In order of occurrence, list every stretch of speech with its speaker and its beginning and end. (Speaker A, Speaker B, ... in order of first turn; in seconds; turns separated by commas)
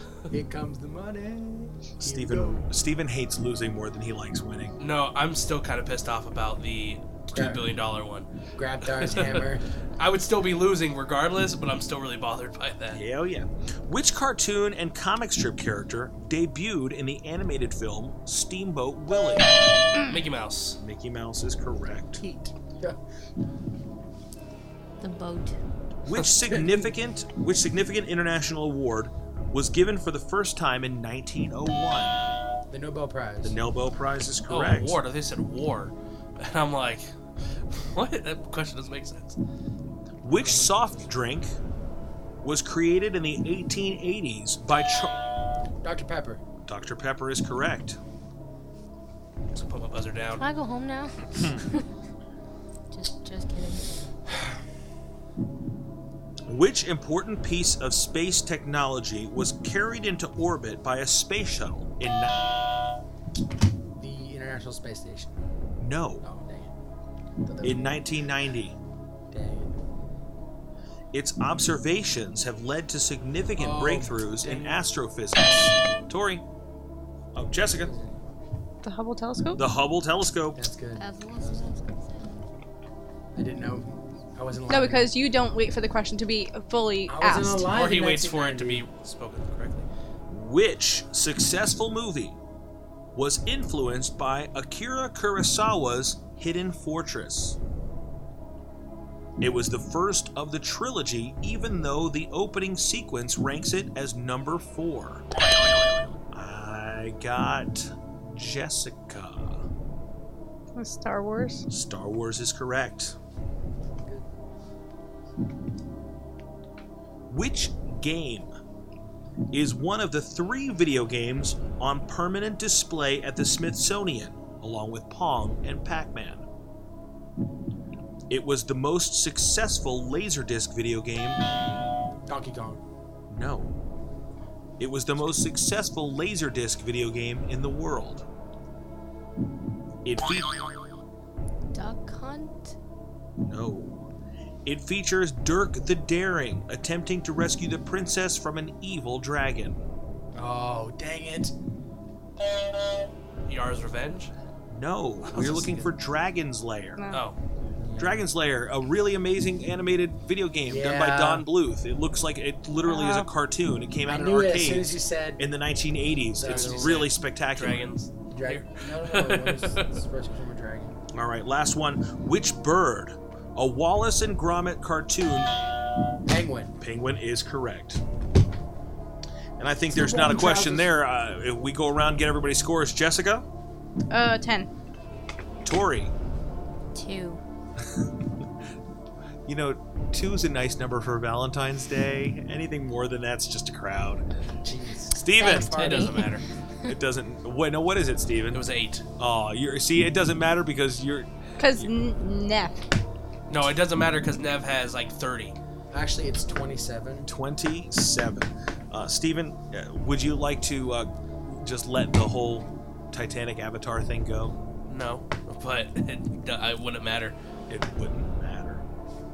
Speaker A: 0.3-2.6, Speaker B: 2.0-4.8, Speaker C: 4.8-8.3, Speaker A: 7.3-7.7, Speaker A: 8.6-9.6, Speaker C: 8.8-13.0, Speaker B: 12.9-19.6, Speaker C: 20.0-20.8, Speaker B: 20.8-22.2, Speaker A: 22.2-23.0, Speaker D: 25.0-25.6, Speaker B: 26.1-32.2, Speaker A: 32.7-33.6, Speaker B: 33.4-35.0, Speaker C: 34.5-37.1, Speaker C: 37.7-39.4, Speaker B: 40.2-41.5, Speaker A: 40.3-41.1, Speaker B: 42.4-45.2, Speaker A: 45.8-46.4, Speaker B: 46.7-48.0, Speaker C: 49.5-50.4, Speaker D: 50.4-51.9, Speaker B: 51.4-51.6, Speaker D: 52.9-54.0, Speaker B: 56.5-62.4, Speaker A: 64.0-65.4, Speaker B: 65.8-66.2, Speaker A: 66.2-66.7, Speaker A: 67.4-68.0, Speaker B: 67.6-68.8, Speaker A: 69.3-69.8, Speaker B: 71.1-76.4, Speaker A: 73.6-74.8, Speaker B: 77.3-77.9, Speaker A: 77.7-78.2, Speaker E: 78.8-79.6, Speaker B: 79.5-80.7, Speaker A: 80.6-81.7, Speaker D: 81.0-82.4, Speaker A: 83.4-85.1, Speaker E: 84.7-87.7, Speaker A: 87.1-88.8, Speaker C: 87.7-89.9, Speaker B: 90.3-92.4, Speaker B: 93.1-97.6, Speaker B: 99.4-105.2, Speaker B: 106.3-109.6, Speaker E: 110.8-111.7, Speaker B: 111.7-113.2, Speaker A: 113.9-114.3, Speaker B: 117.3-118.5, Speaker B: 119.5-126.5, Speaker B: 128.3-131.4, Speaker A: 132.3-132.8, Speaker B: 133.3-133.7, Speaker B: 134.8-138.3, Speaker B: 140.1-140.6, Speaker D: 141.7-142.8, Speaker B: 143.4-144.1, Speaker B: 144.7-149.8, Speaker A: 150.3-151.5, Speaker C: 153.5-154.3, Speaker B: 154.7-157.1, Speaker A: 155.4-155.8, Speaker E: 157.0-157.2, Speaker C: 157.1-157.4, Speaker A: 157.8-158.2, Speaker B: 158.0-167.9, Speaker A: 160.7-161.5, Speaker E: 162.9-163.3, Speaker A: 164.1-165.4, Speaker A: 166.3-167.1, Speaker C: 166.4-169.9, Speaker A: 168.3-171.0, Speaker B: 171.1-175.5, Speaker A: 176.3-176.8, Speaker B: 176.8-178.0, Speaker B: 179.6-183.5, Speaker A: 179.9-180.9, Speaker E: 184.1-184.7, Speaker B: 185.6-186.1, Speaker D: 186.9-187.4, Speaker B: 187.9-188.5, Speaker B: 189.5-194.2, Speaker A: 194.6-196.1, Speaker B: 195.2-195.9, Speaker C: 195.4-196.4, Speaker D: 195.4-196.3, Speaker B: 196.9-198.6, Speaker C: 198.5-199.1, Speaker B: 199.2-201.9, Speaker E: 201.6-202.8, Speaker C: 203.5-205.6, Speaker A: 205.9-207.3, Speaker B: 207.3-214.6, Speaker C: 214.9-217.3, Speaker B: 217.7-218.8